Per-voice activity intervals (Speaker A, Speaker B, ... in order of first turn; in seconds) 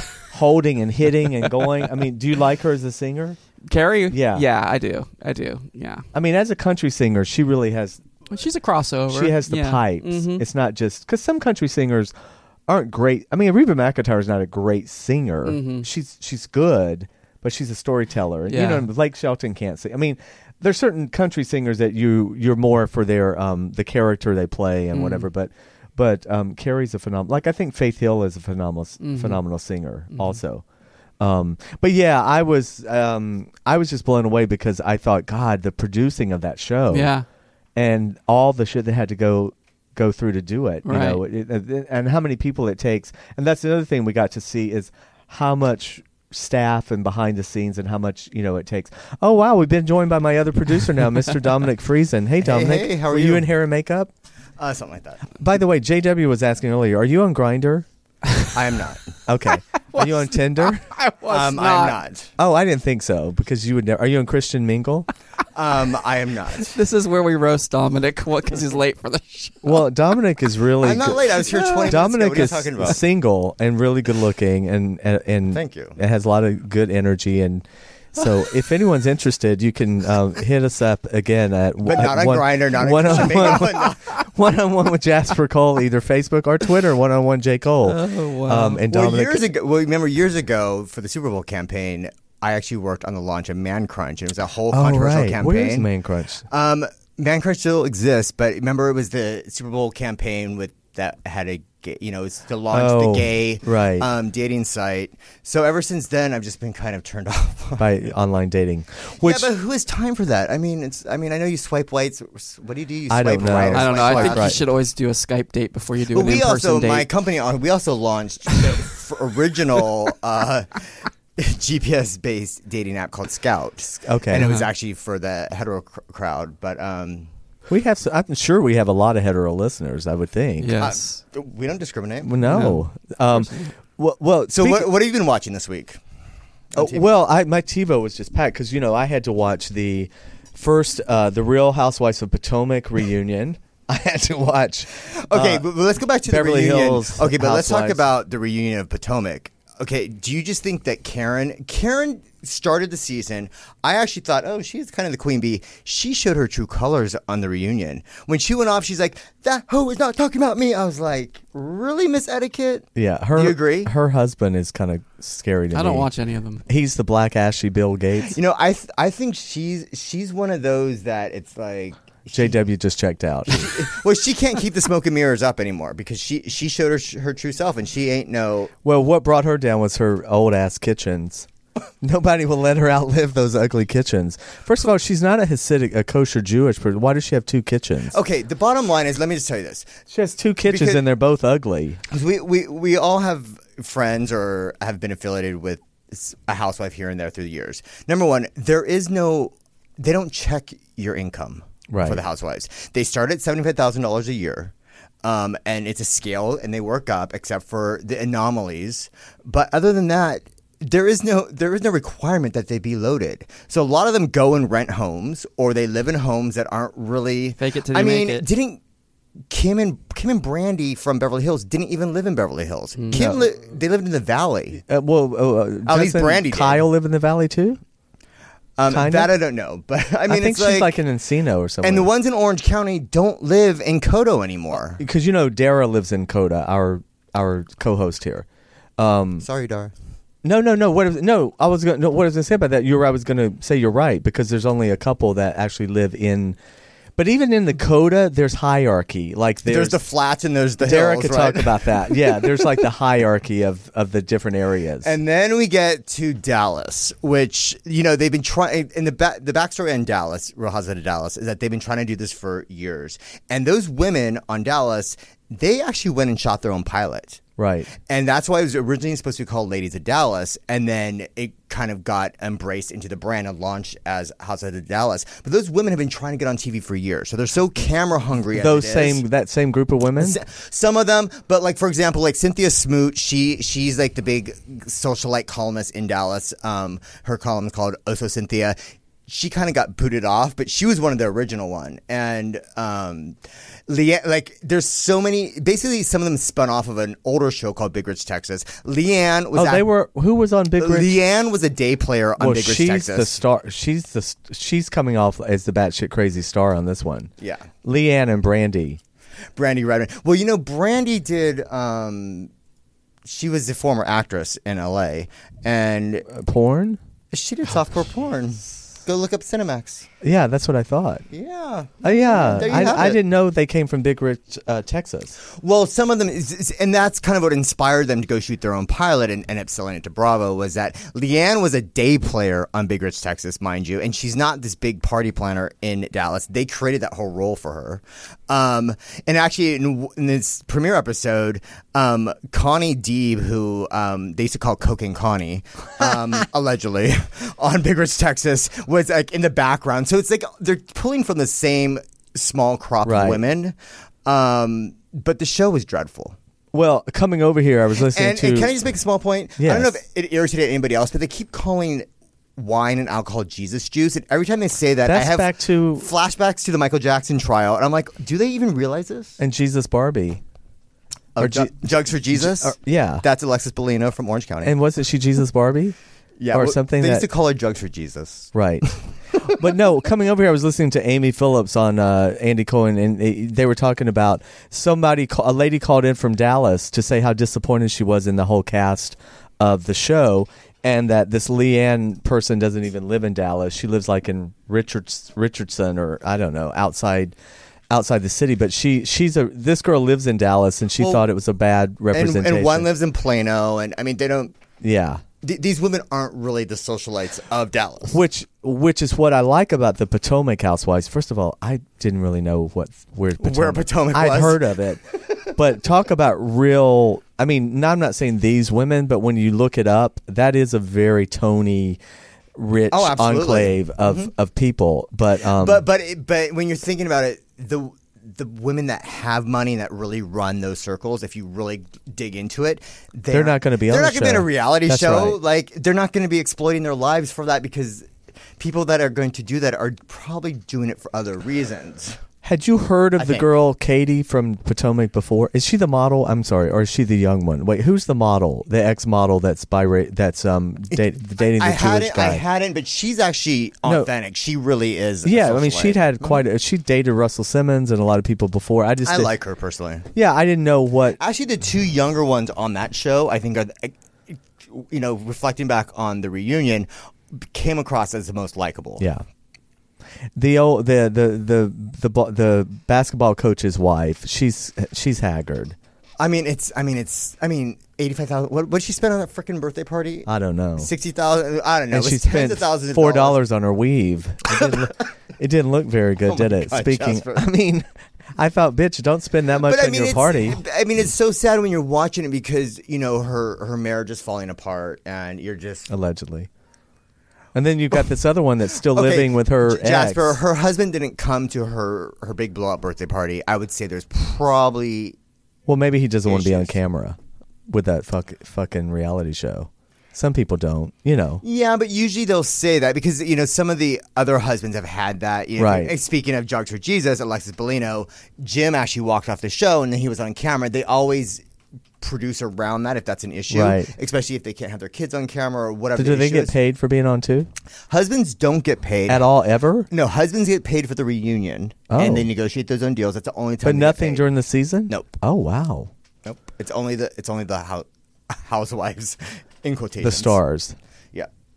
Speaker A: 0.3-3.4, 4.1-4.4, 6.1-8.0, 9.1-12.1, 12.7-30.6, 31.2-37.1, 37.8-54.1, 55.4-57.9, 59.2-60.9, 62.4-65.0, 69.6-89.4, 94.7-96.4, 102.7-104.1, 107.8-109.5, 113.1-114.6, 124.0-124.5, 127.7-130.8, 132.2-134.9, 136.8-145.7, 146.2-148.0, 162.9-166.1, 166.7-168.4, 172.3-173.9, 178.8-181.5, 182.0-188.2, 190.1-192.0, 201.9-202.2, 223.1-223.4, 224.9-227.8, 228.9-229.3, 230.3-232.1, 235.0-238.4, 239.0-239.4, 240.4-246.6, 247.2-250.0, 250.8-255.2, 267.6-267.9, 278.5-280.4, 299.5-301.2, 302.4-307.3, 307.8-309.0, 316.3-317.0, 320.2-321.2, 322.0-325.4, 353.0-353.4, 356.7-358.7, 359.6-359.9, 365.0-366.1, 369.4-370.4, 371.4-373.2, 374.6-375.9, 376.5-377.3, 378.5-378.9, 379.4-397.3, 397.9-402.9, 404.8-405.2, 408.1-422.0, 422.6-425.8, 433.3-435.4, 442.4-452.4, 455.2-459.3, 460.1-461.2, 470.4-475.8, 480.3-480.9, 481.9-490.6, 495.9-496.5, 497.5-500.4, 505.7-507.2, 507.7-511.4, 515.6-515.9, 523.5-523.9, 526.0-527.5, 529.1-529.9, 531.9-532.3, 533.6-535.9, 540.0-540.8
Speaker B: 1.4-1.9, 3.6-6.1, 8.3-10.4, 15.4-15.9, 18.5-18.9, 24.9-25.3, 29.0-29.4, 30.1-30.4, 36.9-37.2, 40.8-41.2, 59.9-62.0, 66.6-69.8, 71.5-71.9, 87.8-88.8, 113.7-117.1, 124.4-124.7, 130.6-131.2, 132.4-133.7, 165.7-166.6, 217.6-218.4, 222.9-223.3
Speaker C: 52.4-53.5, 54.6-55.4, 58.5-59.1, 61.3-62.3, 65.5-66.7, 70.8-73.0, 75.5-76.0, 81.8-84.0, 88.8-95.9, 96.5-107.9, 109.2-114.6, 116.1-120.8, 121.4-127.3, 130.8-132.7, 134.5-136.0, 136.7-137.1, 145.1-163.9, 168.2-172.6, 173.5-178.7, 188.1-189.9, 190.6-191.0, 192.1-218.8, 219.5-224.8, 225.8-226.8, 228.8-231.0, 231.8-235.0, 239.4-239.9, 249.7-252.7, 255.0-267.4, 268.1-279.2, 280.2-288.8, 289.3-293.4, 293.9-299.9, 300.8-303.4, 307.4-307.7, 309.6-312.5, 313.2-316.3, 317.3-320.1, 321.3-323.2, 325.6-353.7, 354.2-356.4, 358.0-362.1, 362.6-369.4, 371.4-374.8, 376.4-379.5, 401.0-401.2, 402.1-404.5, 405.4-408.2, 413.4-414.7, 422.9-424.3, 425.5-438.1, 438.6-442.2, 443.2-443.5, 451.6-456.4, 459.1-460.1, 461.2-469.1, 476.2-483.4, 484.5-484.9, 486.3-487.5, 489.6-495.9, 498.9-505.1, 506.3-506.7, 511.4-521.4, 522.0-526.5, 527.9-529.2, 529.9-534.2, 534.9-535.1, 536.2-540.4